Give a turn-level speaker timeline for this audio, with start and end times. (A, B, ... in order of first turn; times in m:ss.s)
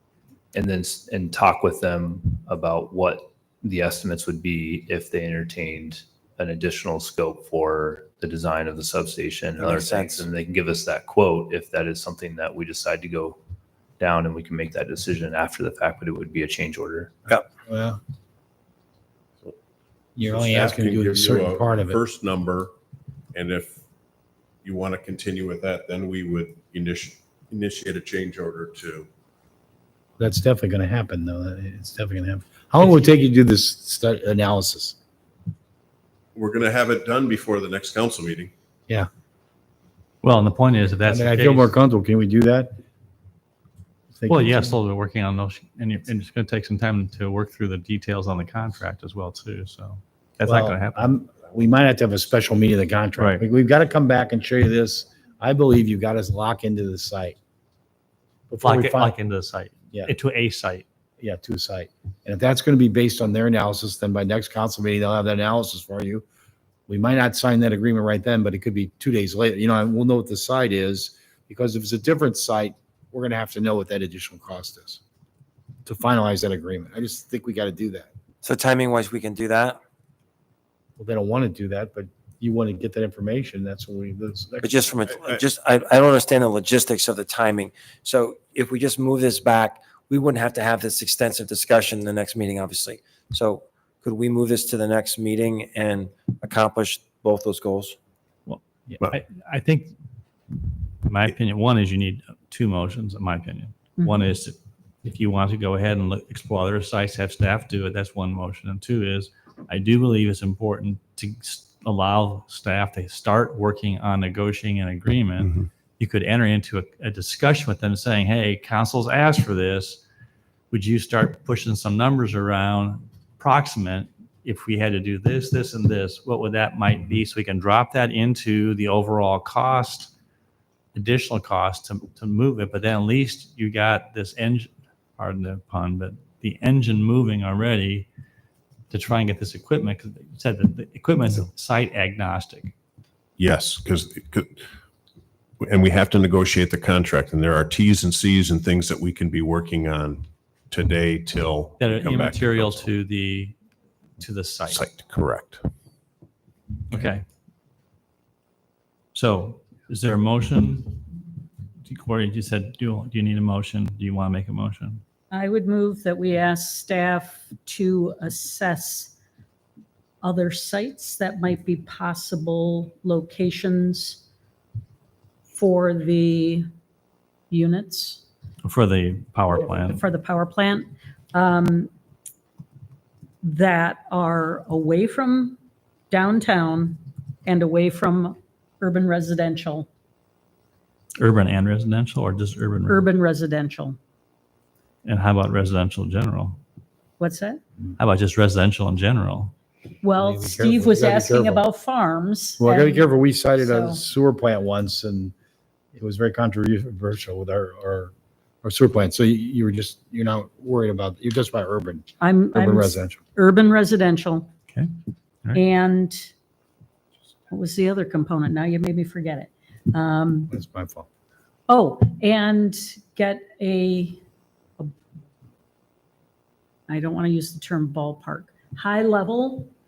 0:00.5-0:13.4 A
0:09.6-0:10.3 B
0:14.0-0:17.1 A
0:17.7-0:18.0 C
0:20.2-0:22.0 C
0:20.3-0:22.7 D
0:23.3-0:23.8 D
0:24.6-0:29.1 D
0:30.2-0:35.0 C
0:36.4-0:38.5 D
0:40.2-0:41.8 E
0:41.1-0:42.8 C
0:44.2-0:44.8 C
0:44.3-0:51.1 E
0:50.4-0:57.4 C
0:53.2-0:53.4 E
0:58.5-0:59.2 C
0:58.6-1:00.8 E
1:01.2-1:06.2 C
1:06.9-1:15.0 C
1:15.8-1:18.1 C
1:18.4-1:19.8 B
1:21.0-1:25.2 C
1:24.6-1:38.0 B
1:38.5-1:39.9 E
1:41.0-2:00.0 E
2:00.7-2:10.1 E
2:10.9-2:18.1 E
2:18.9-2:22.7 E
2:23.4-2:24.7 D
2:25.6-2:32.9 D
2:31.8-2:33.6 E
2:34.2-2:34.9 E
2:34.7-2:35.6 D
2:36.9-2:37.2 E
2:39.1-2:41.0 E
2:41.8-2:45.0 E
2:45.3-2:49.1 F
2:50.2-2:54.2 F
2:55.5-2:56.6 F
2:57.5-2:58.2 F
2:58.6-3:00.0 E
2:59.5-3:01.9 F
3:03.4-3:05.6 F
3:06.1-3:09.9 F
3:11.2-3:13.0 E
3:12.9-3:14.0 F
3:15.0-3:16.6 E
3:17.2-3:17.6 F
3:18.0-3:19.5 E
3:20.0-3:24.0 F
3:20.2-3:21.6 C
3:22.6-3:25.3 C
3:26.0-3:28.1 C
3:28.6-3:33.2 C
3:32.2-3:34.5 F
3:35.5-3:36.3 F
3:37.5-3:40.5 F
3:40.5-3:41.1 C
3:41.7-3:44.2 F
3:46.9-3:49.7 F